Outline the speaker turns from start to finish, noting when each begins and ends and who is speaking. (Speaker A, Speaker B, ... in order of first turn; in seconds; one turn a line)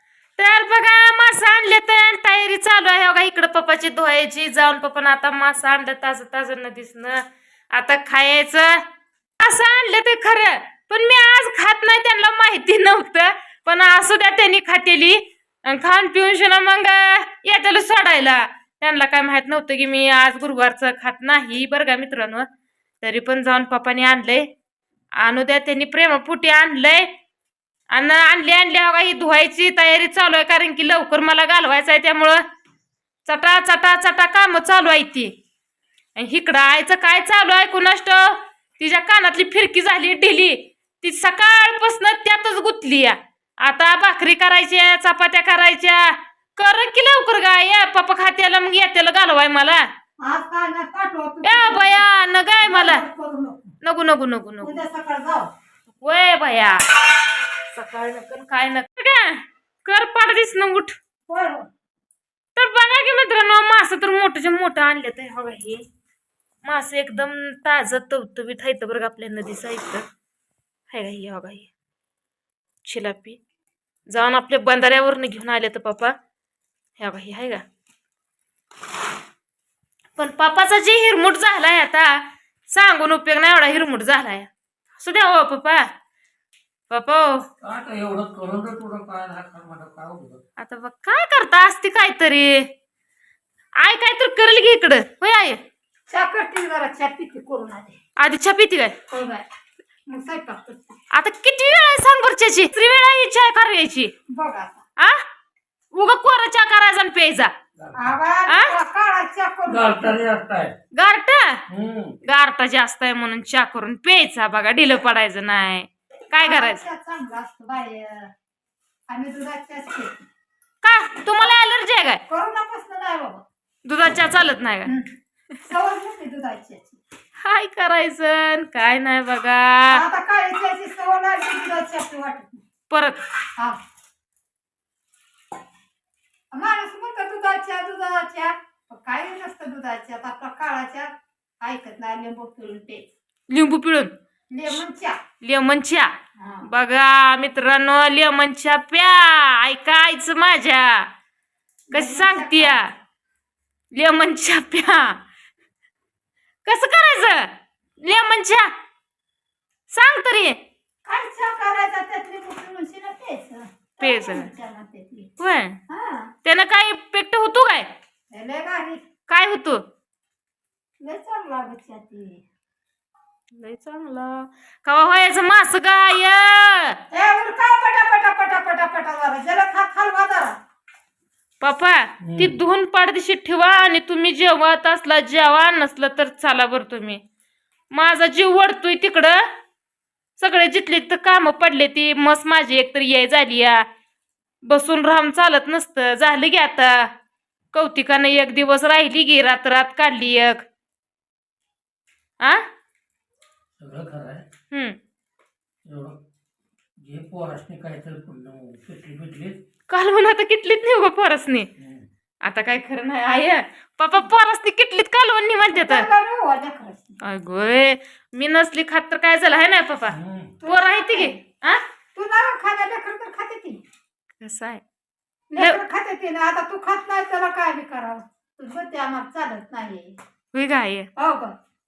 Speaker A: 0.4-8.8
Speaker A: 9.4-22.5
Speaker A: 23.0-24.5
Speaker A: 25.2-27.1
Speaker A: 27.9-32.4
Speaker A: 33.3-35.3
Speaker A: 36.2-49.9
Speaker B: 50.2-52.1
Speaker A: 51.4-53.0
Speaker B: 52.6-53.7
Speaker A: 53.8-54.8
Speaker B: 54.6-55.5
Speaker A: 56.0-57.1
Speaker A: 57.7-61.0
Speaker B: 61.3-61.7
Speaker A: 62.5-65.8
Speaker A: 66.6-70.0
Speaker A: 70.9-71.7
Speaker A: 72.8-73.4
Speaker A: 74.1-76.1
Speaker A: 77.0-77.6
Speaker A: 80.2-85.9
Speaker A: 86.9-87.5
Speaker C: 87.6-90.4
Speaker A: 90.6-92.7
Speaker A: 93.8-95.6
Speaker B: 96.1-98.0
Speaker A: 98.2-99.0
Speaker B: 99.1-99.4
Speaker B: 100.1-101.0
Speaker A: 101.1-104.1
Speaker B: 104.3-104.8
Speaker A: 105.0-105.2
Speaker A: 105.9-107.5
Speaker C: 107.8-108.0
Speaker B: 107.9-110.1
Speaker A: 108.5-108.7
Speaker C: 109.7-110.8
Speaker A: 110.9-111.7
Speaker C: 111.7-112.2
Speaker A: 112.2-116.8
Speaker B: 116.3-118.3
Speaker B: 119.1-120.2
Speaker A: 120.8-122.2
Speaker B: 122.3-123.4
Speaker A: 123.8-124.9
Speaker B: 124.8-125.1
Speaker B: 125.6-127.0
Speaker A: 127.4-130.0
Speaker B: 129.9-132.6
Speaker A: 132.9-133.2
Speaker B: 136.5-143.0
Speaker A: 143.5-144.1
Speaker B: 144.5-145.2
Speaker A: 145.4-146.1
Speaker B: 146.4-146.7
Speaker A: 146.7-151.1
Speaker B: 151.9-153.0
Speaker A: 151.9-152.9
Speaker A: 153.9-155.2
Speaker A: 156.7-158.7
Speaker A: 159.9-160.6
Speaker B: 161.0-165.3
Speaker A: 164.0-164.5
Speaker A: 165.4-165.8
Speaker B: 165.9-166.3
Speaker A: 166.4-167.9
Speaker B: 168.3-169.0
Speaker A: 169.3-169.8
Speaker B: 171.0-172.4
Speaker A: 173.5-177.0
Speaker B: 177.1-180.6
Speaker A: 181.6-187.2
Speaker C: 182.2-182.6
Speaker A: 187.9-189.5
Speaker A: 190.4-193.8
Speaker A: 194.6-197.1
Speaker A: 197.7-200.6
Speaker C: 203.8-204.4
Speaker A: 204.7-205.0
Speaker C: 205.8-206.2
Speaker C: 207.0-209.6
Speaker A: 209.9-211.7
Speaker C: 211.8-212.1
Speaker A: 212.4-216.1
Speaker B: 215.7-217.2
Speaker A: 217.2-221.8
Speaker C: 220.1-220.6
Speaker B: 220.6-221.4
Speaker B: 222.1-223.8
Speaker A: 224.4-224.8
Speaker B: 225.5-230.2
Speaker A: 230.5-231.1
Speaker B: 231.2-231.5